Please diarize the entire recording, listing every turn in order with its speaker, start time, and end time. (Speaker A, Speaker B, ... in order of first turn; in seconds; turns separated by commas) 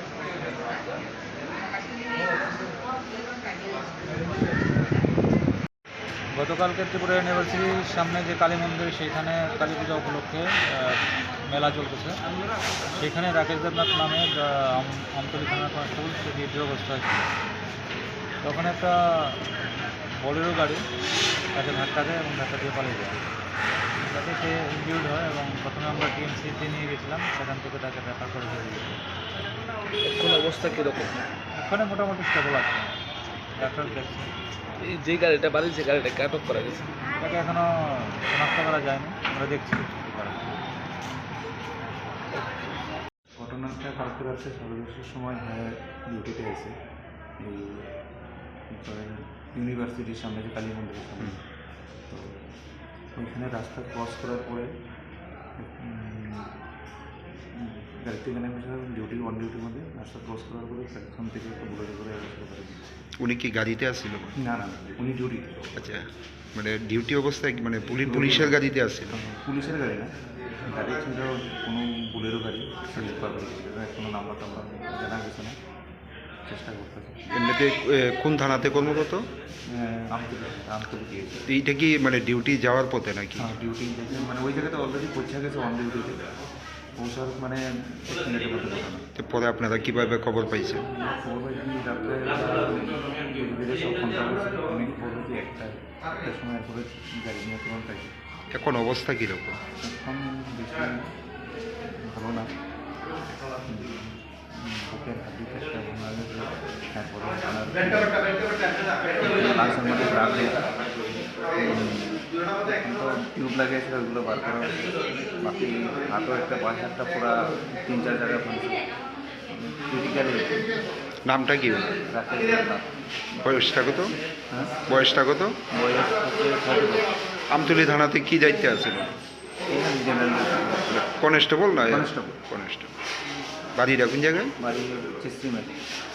Speaker A: 6.3-12.2, Speaker A: 12.9-17.3, Speaker A: 18.4-19.4, Speaker A: 20.2-20.8, Speaker A: 21.5-23.2, Speaker A: 24.0-29.0, Speaker B: 30.1-31.1, Speaker A: 31.6-32.9, Speaker A: 33.6-34.3, Speaker B: 34.9-36.9, Speaker A: 37.1-40.5, Speaker C: 43.4-46.8, Speaker C: 47.4-47.9, Speaker C: 48.7-51.4, Speaker C: 52.1-52.4, Speaker C: 53.2-54.7, Speaker C: 55.6-56.5, Speaker C: 57.5-62.9, Speaker D: 63.2-64.3, Speaker C: 64.4-65.7, Speaker D: 65.8-69.2, Speaker C: 68.0-68.6, Speaker C: 69.1-75.6, Speaker C: 76.5-77.4, Speaker D: 77.3-79.3, Speaker C: 79.7-81.5, Speaker D: 81.5-83.5, Speaker C: 83.4-86.3, Speaker C: 87.0-89.0, Speaker D: 89.1-90.8, Speaker C: 90.7-98.1, Speaker D: 98.5-99.6, Speaker C: 99.8-101.1, Speaker C: 102.0-102.5, Speaker C: 103.7-108.3, Speaker C: 109.2-110.7, Speaker C: 111.6-118.9, Speaker C: 119.5-120.7, Speaker D: 121.2-122.0, Speaker C: 122.0-122.8, Speaker D: 123.4-124.1, Speaker C: 124.5-124.9, Speaker D: 124.9-125.6, Speaker C: 125.7-127.1, Speaker D: 127.5-129.1, Speaker C: 129.7-131.1, Speaker D: 131.0-132.9, Speaker C: 131.7-132.4, Speaker D: 133.8-134.5, Speaker C: 134.6-135.8